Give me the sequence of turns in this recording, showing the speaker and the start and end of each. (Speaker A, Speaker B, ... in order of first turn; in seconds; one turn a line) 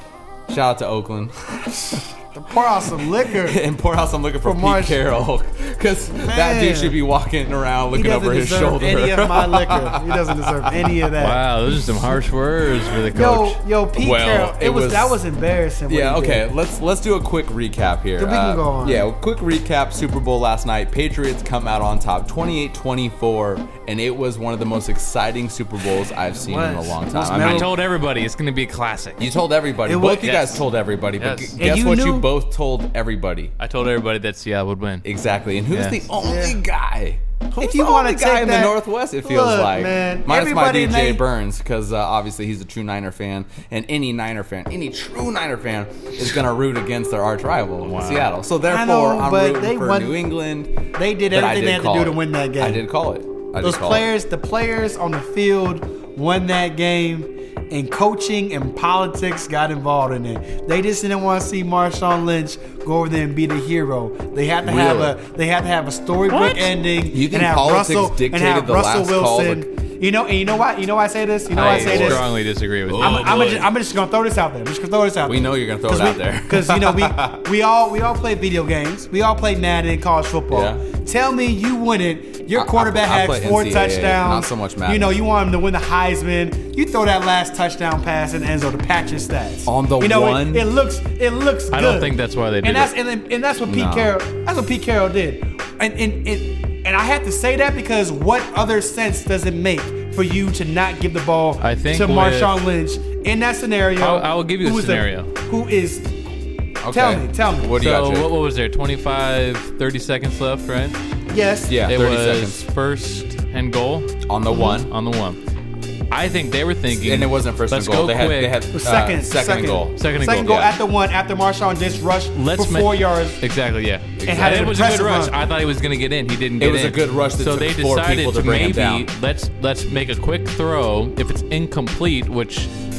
Speaker A: 0.5-2.1
Speaker B: 2.3-3.6
Speaker A: 3.0-11.1
Speaker B: 4.4-5.0
Speaker B: 6.3-7.0
Speaker B: 7.9-11.4
Speaker C: 11.2-13.6
Speaker B: 13.1-16.5
Speaker A: 13.9-15.2
Speaker A: 15.9-27.7
Speaker B: 18.2-19.1
Speaker B: 26.4-27.7
Speaker C: 27.4-29.3
Speaker A: 29.2-33.5
Speaker B: 29.9-30.4
Speaker C: 30.2-30.6
Speaker C: 31.1-31.6
Speaker B: 31.6-32.3
Speaker C: 33.6-35.0
Speaker A: 35.0-50.7
Speaker C: 35.7-36.0
Speaker B: 36.2-36.6
Speaker B: 37.5-41.2
Speaker C: 47.8-48.3
Speaker B: 48.6-50.2
Speaker B: 50.9-52.8
Speaker A: 51.3-54.1
Speaker B: 53.6-72.2
Speaker A: 64.6-65.2
Speaker C: 66.3-66.7
Speaker A: 67.0-69.6
Speaker C: 71.5-73.7
Speaker A: 71.5-72.3
Speaker A: 72.9-73.7
Speaker B: 73.0-106.1
Speaker A: 75.2-77.4
Speaker A: 80.5-80.8
Speaker A: 82.5-85.2
Speaker A: 89.7-90.7
Speaker C: 91.7-92.9
Speaker A: 93.7-94.1
Speaker C: 101.6-102.6
Speaker C: 104.0-105.3
Speaker A: 106.8-108.3
Speaker B: 106.9-107.7
Speaker C: 107.7-111.0
Speaker B: 111.3-111.8
Speaker A: 111.7-112.6
Speaker C: 111.8-115.4
Speaker A: 114.2-114.9
Speaker C: 116.1-118.6
Speaker A: 116.9-120.7
Speaker B: 118.7-123.4
Speaker C: 120.0-120.6
Speaker C: 122.3-132.7
Speaker A: 124.2-124.7
Speaker B: 124.2-125.3
Speaker A: 126.6-129.1